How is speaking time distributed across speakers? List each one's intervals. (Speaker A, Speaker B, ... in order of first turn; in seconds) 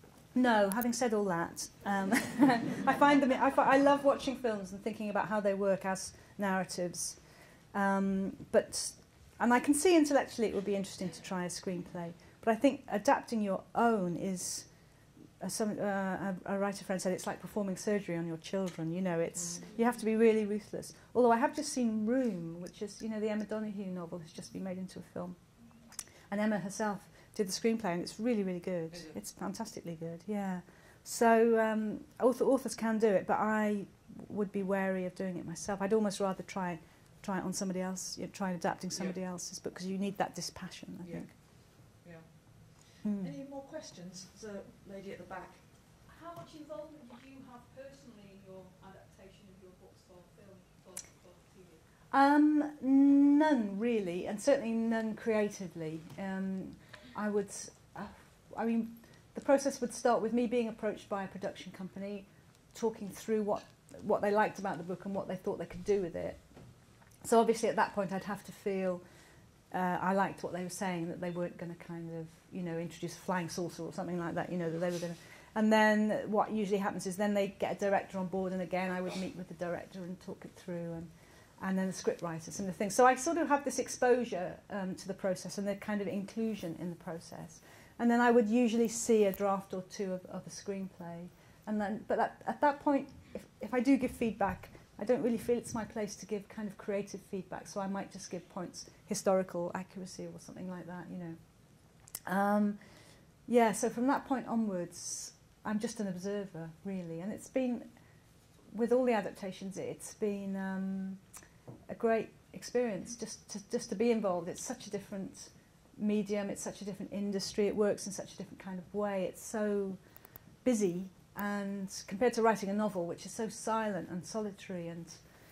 Speaker A: 0.3-25.4, 26.3-41.3, 43.0-43.3, 52.1-66.4, 67.2-69.0, 69.7-107.9, 108.7-111.2, 111.9-120.0, 120.6-125.2
Speaker B: 19.3-19.9, 28.9-29.2, 38.9-39.2, 41.0-45.7
Speaker C: 46.0-51.8